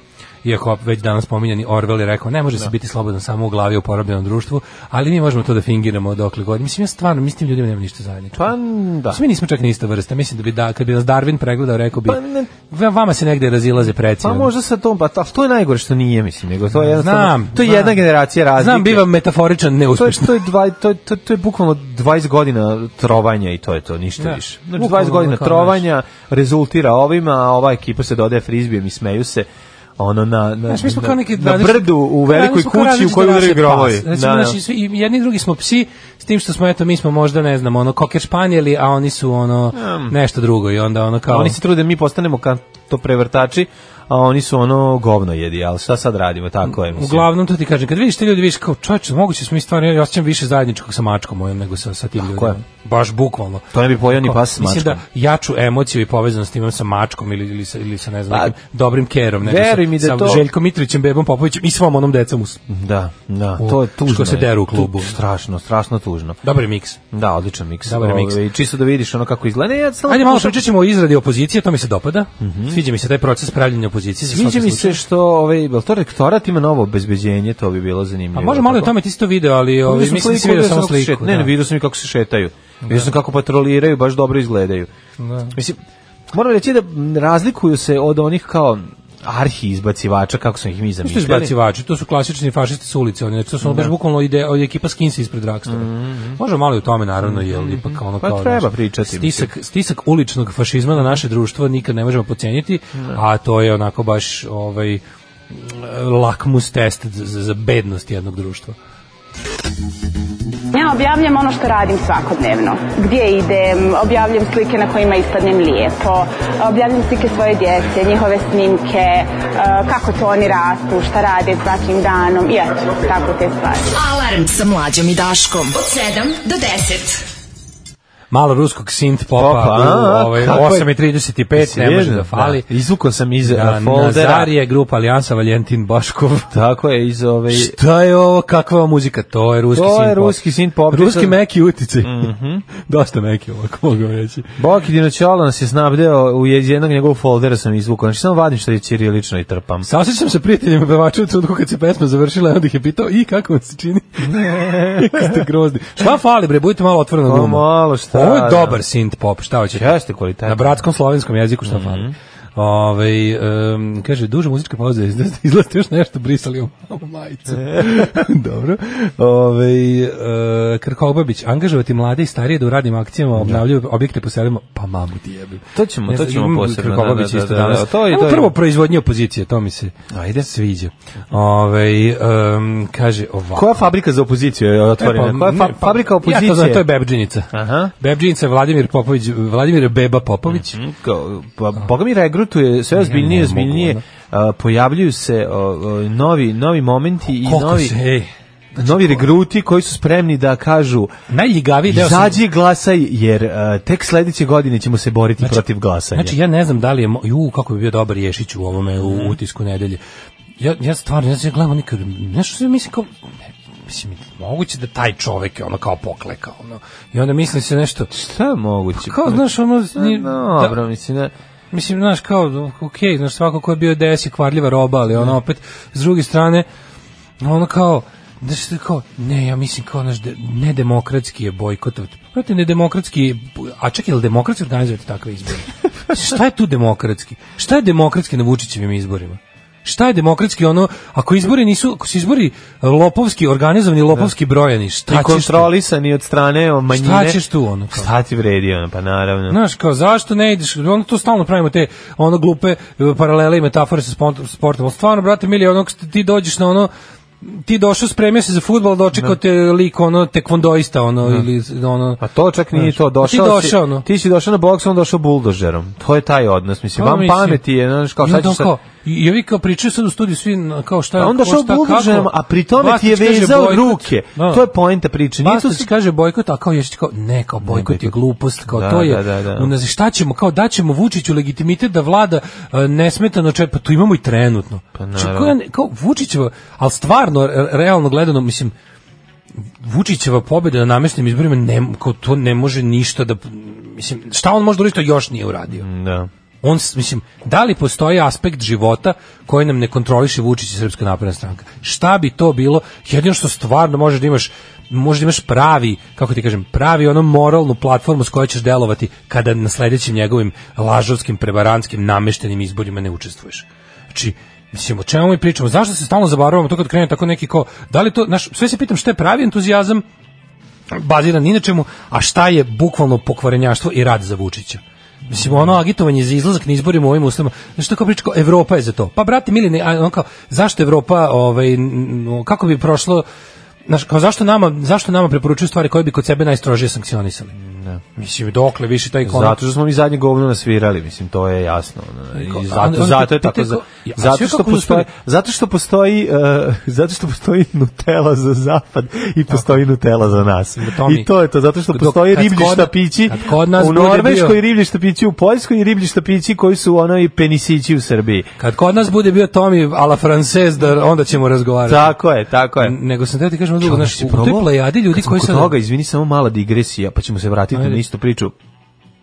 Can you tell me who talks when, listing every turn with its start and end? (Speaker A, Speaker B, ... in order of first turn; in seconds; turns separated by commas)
Speaker A: 0.4-8.5, Speaker B: 8.3-9.2, Speaker A: 9.1-14.5, Speaker B: 12.0-12.5, Speaker B: 14.2-19.1, Speaker A: 16.8-18.0, Speaker A: 18.6-20.4, Speaker B: 19.9-34.6, Speaker A: 24.2-25.8, Speaker A: 30.7-41.6, Speaker B: 39.7-40.1, Speaker B: 41.3-47.3, Speaker A: 46.7-62.6, Speaker B: 52.2-52.6, Speaker B: 53.7-55.0, Speaker B: 58.3-58.5, Speaker B: 59.4-60.5, Speaker B: 62.7-66.4, Speaker A: 63.6-65.2, Speaker A: 66.4-67.0, Speaker B: 67.1-70.6, Speaker A: 67.8-68.4, Speaker A: 70.1-75.0, Speaker B: 72.4-72.8, Speaker B: 74.3-78.9, Speaker A: 78.3-81.5, Speaker B: 79.8-84.9, Speaker A: 82.8-83.1, Speaker A: 85.2-85.5, Speaker B: 85.5-85.8, Speaker B: 86.3-91.5, Speaker A: 91.0-108.8, Speaker B: 93.6-93.9, Speaker B: 95.7-96.4, Speaker B: 97.2-99.5, Speaker C: 110.7-123.9, Speaker D: 123.9-127.2, Speaker A: 128.3-132.7, Speaker B: 129.3-130.9, Speaker B: 131.5-134.5, Speaker A: 133.4-136.5, Speaker B: 136.5-137.7, Speaker A: 137.5-144.5, Speaker B: 139.7-141.3, Speaker B: 142.0-142.7, Speaker B: 144.6-149.9, Speaker A: 149.8-159.9, Speaker B: 154.3-155.5, Speaker B: 157.2-158.8, Speaker B: 159.7-160.8, Speaker A: 160.4-183.9, Speaker B: 161.7-162.1, Speaker B: 167.5-168.2, Speaker B: 173.3-173.6, Speaker B: 175.7-178.5, Speaker B: 180.1-180.5, Speaker B: 183.5-186.8, Speaker A: 185.0-190.8, Speaker B: 187.5-187.9, Speaker B: 190.5-197.9, Speaker A: 192.9-194.0, Speaker A: 197.4-199.2, Speaker B: 198.8-201.1, Speaker A: 201.3-202.4, Speaker B: 201.9-206.3, Speaker A: 206.1-210.0, Speaker B: 208.9-209.4, Speaker A: 210.6-213.1, Speaker A: 213.8-218.1, Speaker B: 218.1-221.3, Speaker A: 219.0-220.8, Speaker A: 221.7-226.7, Speaker A: 227.4-245.7, Speaker B: 245.1-249.6, Speaker A: 246.9-248.1, Speaker A: 249.5-256.9, Speaker A: 257.4-262.2, Speaker B: 262.2-268.7, Speaker A: 262.7-264.1, Speaker A: 267.0-267.6, Speaker A: 268.2-274.6, Speaker B: 271.2-275.9, Speaker A: 275.4-288.7, Speaker B: 277.6-279.7, Speaker B: 285.0-285.5, Speaker A: 289.8-295.9, Speaker B: 295.7-296.3, Speaker A: 296.6-320.0, Speaker A: 320.9-333.2, Speaker B: 325.3-325.7, Speaker A: 333.9-337.5, Speaker B: 337.5-338.0, Speaker A: 338.1-339.6, Speaker B: 339.2-358.5, Speaker A: 342.3-345.1, Speaker A: 350.8-351.3, Speaker A: 351.9-354.6, Speaker A: 358.6-362.1, Speaker B: 361.8-363.0, Speaker A: 362.8-365.7, Speaker B: 363.8-368.5, Speaker A: 367.7-368.0